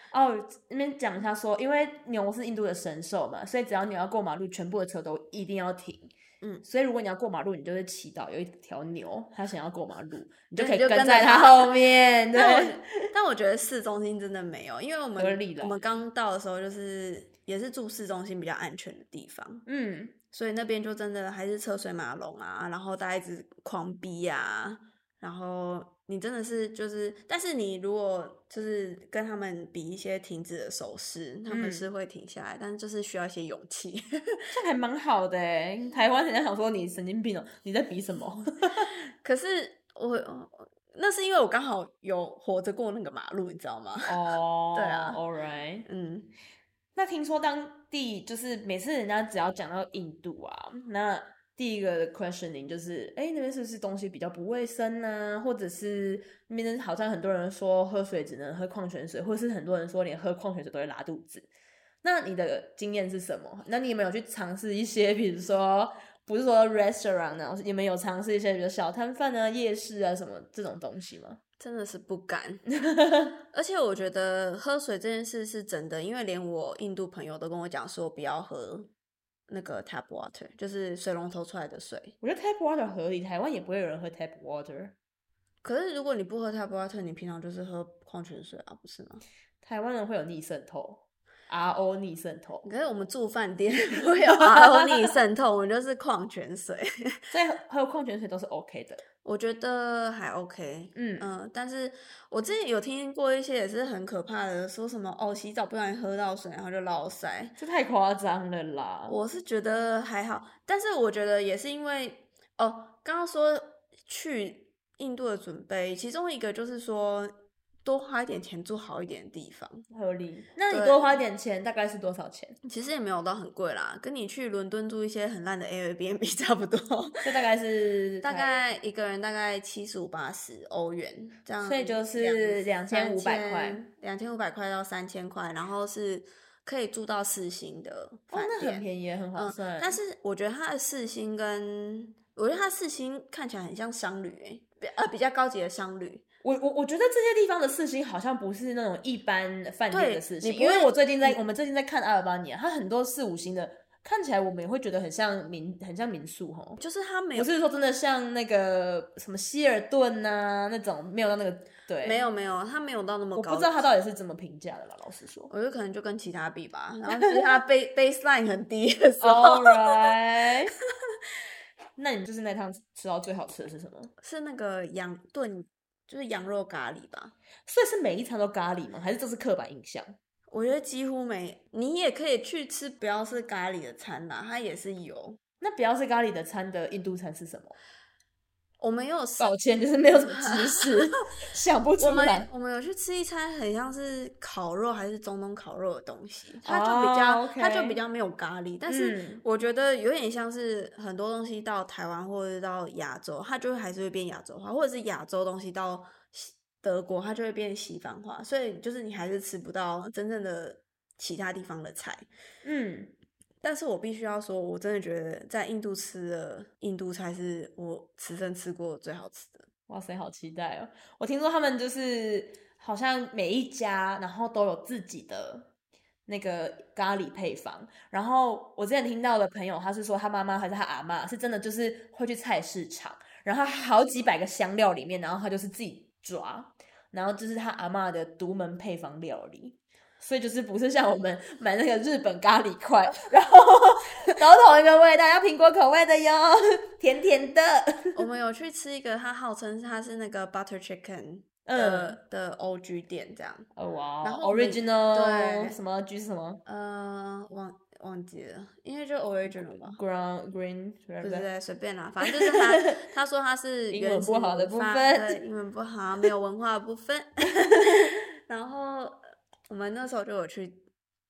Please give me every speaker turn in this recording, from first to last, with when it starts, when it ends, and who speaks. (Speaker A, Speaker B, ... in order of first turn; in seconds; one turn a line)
Speaker A: 0.1-6.1
Speaker A: 6.6-12.9
Speaker B: 10.6-11.8
Speaker B: 12.3-19.6
Speaker A: 15.2-15.8
Speaker A: 19.7-20.1
Speaker B: 20.3-34.5
Speaker A: 31.5-31.9
Speaker A: 34.5-38.9
Speaker B: 39.2-44.2
Speaker A: 44.1-45.9
Speaker B: 44.7-45.2
Speaker B: 45.9-46.3
Speaker A: 47.0-61.5
Speaker A: 62.0-71.4
Speaker B: 71.6-72.7
Speaker A: 72.8-73.3
Speaker B: 73.5-78.9
Speaker B: 79.5-82.2
Speaker A: 82.2-85.0
Speaker B: 85.6-89.2
Speaker A: 89.6-92.7
Speaker B: 92.6-97.3
Speaker A: 94.2-94.9
Speaker A: 97.3-99.0
Speaker B: 99.2-107.6
Speaker A: 101.0-101.3
Speaker A: 107.6-109.2
Speaker B: 109.1-119.8
Speaker A: 119.9-122.6
Speaker B: 120.7-121.1
Speaker B: 122.7-127.3
Speaker A: 127.2-128.5
Speaker B: 128.2-146.2
Speaker A: 131.6-133.8
Speaker A: 138.3-140.0
Speaker A: 146.4-156.8
Speaker B: 149.9-151.4
Speaker B: 156.8-157.5
Speaker A: 157.3-162.2
Speaker B: 162.0-163.8
Speaker A: 163.3-165.5
Speaker B: 165.5-170.0
Speaker A: 169.2-170.7
Speaker A: 172.0-174.1
Speaker B: 174.2-177.3
Speaker A: 177.7-180.2
Speaker B: 180.5-185.4
Speaker A: 185.6-187.8
Speaker B: 188.8-189.6
Speaker A: 189.4-192.5
Speaker B: 190.1-190.9
Speaker B: 192.0-212.3
Speaker A: 196.7-198.0
Speaker A: 198.9-199.4
Speaker A: 212.6-213.1
Speaker B: 213.6-219.7
Speaker A: 219.9-225.7
Speaker A: 226.3-248.2
Speaker B: 248.2-253.7
Speaker A: 251.7-252.2
Speaker A: 253.8-256.6
Speaker B: 254.2-255.8
Speaker B: 256.6-260.0
Speaker A: 259.5-261.5
Speaker B: 261.2-270.9
Speaker A: 262.3-263.0
Speaker A: 263.9-265.4
Speaker A: 267.7-268.1